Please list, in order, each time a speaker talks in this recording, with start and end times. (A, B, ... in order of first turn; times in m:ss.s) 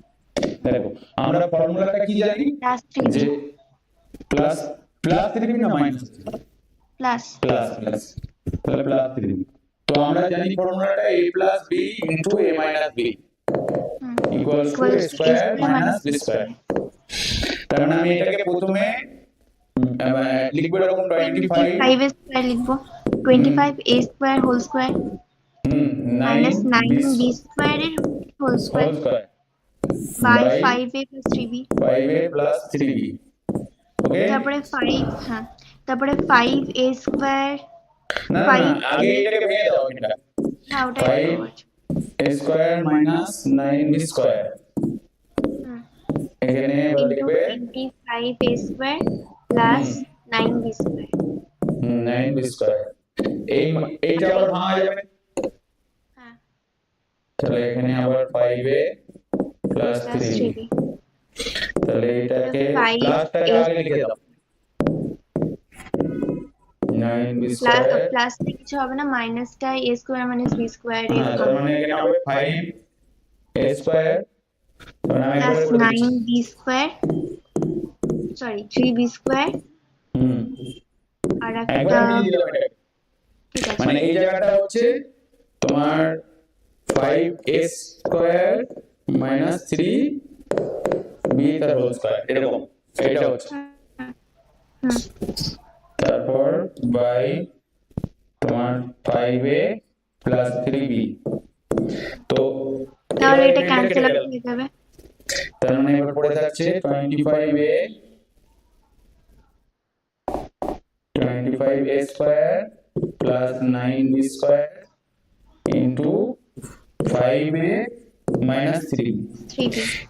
0:00.6-0:02.5 A
0:02.6-0:03.3 B
0:03.0-0:03.3 A
0:04.3-0:06.2 A
0:07.0-0:07.4 B
0:07.4-0:08.1 A
0:08.6-0:13.2 A
0:14.0-0:16.5 B
0:14.3-0:16.5 A
0:17.7-0:19.0 A
0:19.8-0:21.9 A
0:21.2-0:24.9 B
0:23.3-0:23.7 A
0:25.6-0:27.3 A
0:26.2-0:28.9 B
0:28.7-0:29.3 A
0:30.2-0:31.7 B
0:30.2-0:30.8 A
0:31.8-0:33.2 A
0:34.0-0:34.4 A
0:34.2-0:37.6 B
0:38.3-0:40.1 A
0:38.4-0:38.8 B
0:40.7-0:41.6 B
0:41.0-0:41.4 A
0:42.2-0:44.5 A
0:46.4-0:47.6 A
0:47.0-0:51.1 B
0:49.6-0:50.0 A
0:51.8-0:52.9 A
0:53.5-0:55.0 A
0:54.2-0:54.4 B
0:57.4-0:58.9 A
0:59.7-1:00.5 A
1:00.0-1:00.7 B
1:01.8-1:04.2 A
1:02.4-1:03.8 B
1:06.9-1:08.1 A
1:07.6-1:11.6 B
1:11.1-1:12.7 A
1:13.6-1:14.2 A
1:15.1-1:16.1 A
1:15.4-1:16.9 B
1:18.3-1:19.6 B
1:20.1-1:20.5 A
1:21.4-1:22.3 B
1:21.7-1:22.7 A
1:23.5-1:24.0 B
1:23.8-1:24.9 A
1:25.6-1:26.2 A
1:26.9-1:30.1 A
1:31.3-1:33.5 A
1:33.5-1:34.1 B
1:36.0-1:37.4 A
1:38.4-1:39.6 A
1:40.2-1:41.1 A
1:42.3-1:44.2 A
1:43.2-1:44.7 B
1:45.6-1:47.8 A
1:51.1-1:52.7 A
1:53.2-1:54.8 A
1:55.7-1:56.2 A
1:57.1-1:57.8 A
1:58.4-1:59.2 A
1:59.5-1:59.9 B